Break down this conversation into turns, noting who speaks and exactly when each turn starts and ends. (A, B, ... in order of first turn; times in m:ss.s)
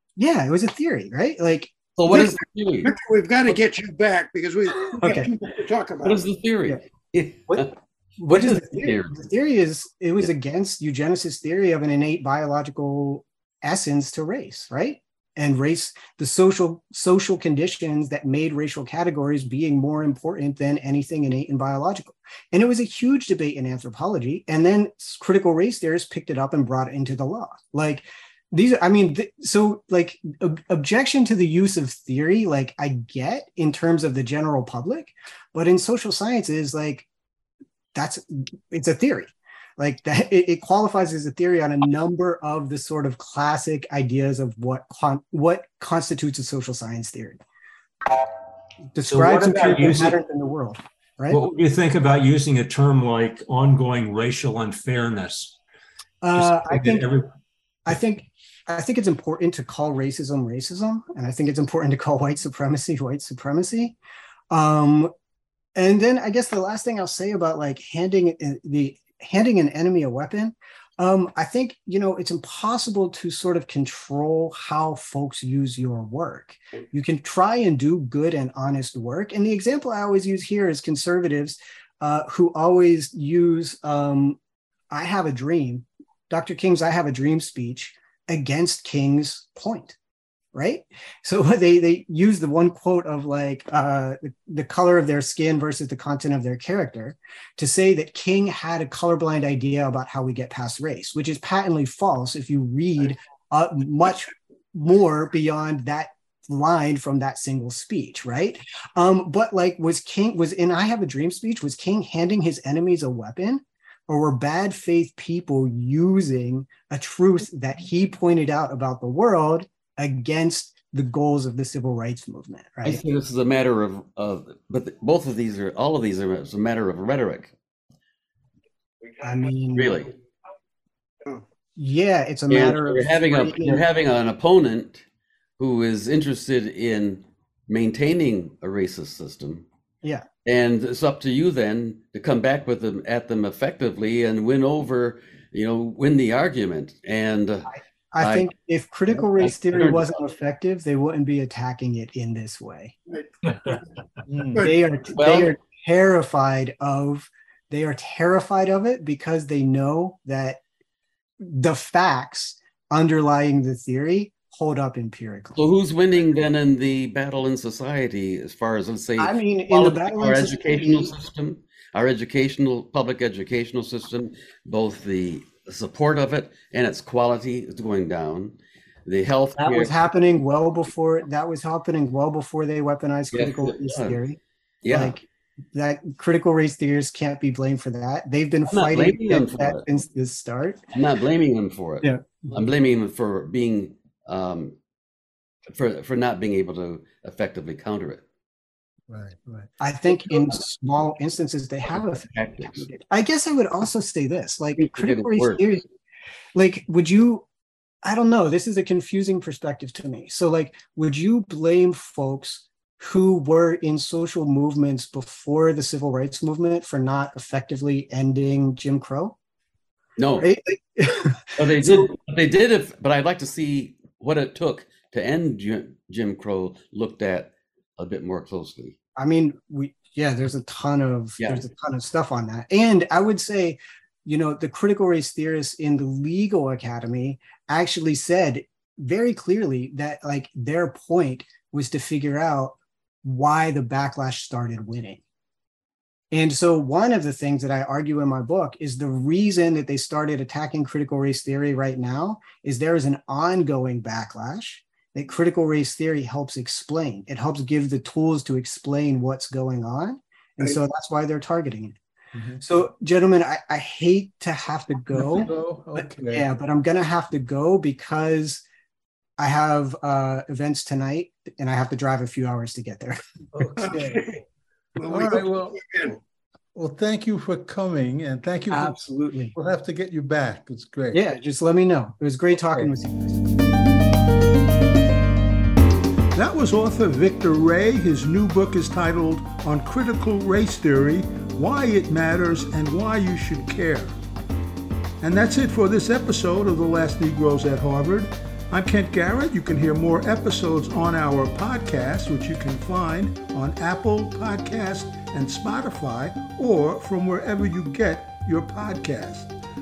0:00.2-0:02.3 A
0:02.0-0:02.9 B
0:02.8-0:06.2 C
0:05.0-0:05.3 A
0:06.0-0:07.7 B
0:07.5-0:37.1 A
0:08.3-0:09.1 B
0:38.0-0:47.4 A
0:48.9-0:51.4 A
0:49.1-0:50.2 D
0:51.3-0:55.6 D
0:56.2-0:57.1 A
0:56.4-0:57.3 D
0:57.9-1:04.0 A
1:04.5-1:05.1 A
1:05.8-1:24.4 A
1:24.9-1:30.0 A
1:30.5-2:03.0 A
2:02.8-2:07.5 B
2:09.2-2:10.0 A
2:09.8-2:10.1 B
2:11.8-2:13.8 A
2:12.5-2:15.0 B
2:15.6-2:19.6 B
2:20.5-2:28.5 B
2:27.7-2:33.0 A
2:29.4-2:30.0 B
2:34.3-2:34.8 E
2:34.6-2:40.6 A
2:35.2-2:35.5 B
2:41.4-2:45.6 A
2:45.6-2:58.6 B
2:49.2-2:51.1 A
2:59.1-2:59.9 B
2:59.6-3:04.4 A
3:03.3-3:04.2 B
3:04.8-3:05.2 B
3:04.9-3:10.8 A
3:08.7-3:09.8 B
3:10.9-3:14.8 B
3:12.0-3:12.4 A
3:15.7-3:18.2 B
3:19.1-3:19.7 E
3:19.8-3:25.8 A
3:22.3-3:22.9 B
3:24.8-3:25.6 B
3:26.6-3:27.5 A
3:28.0-3:39.4 A
3:40.2-3:40.5 B
3:40.4-3:42.1 A
3:41.6-3:49.0 B
3:49.2-4:05.2 A
4:06.3-4:22.0 A
4:22.3-4:22.6 E
4:22.6-4:28.6 A
4:25.1-4:26.5 E
4:29.4-4:34.0 A
4:33.6-4:34.2 E
4:33.8-4:34.4 C
4:35.0-4:36.2 C
4:35.1-4:35.8 E
4:36.8-4:39.0 E
4:38.7-4:39.6 A
4:39.5-4:41.2 E
4:41.1-4:43.5 A
4:46.3-4:54.2 E
4:55.2-5:09.5 E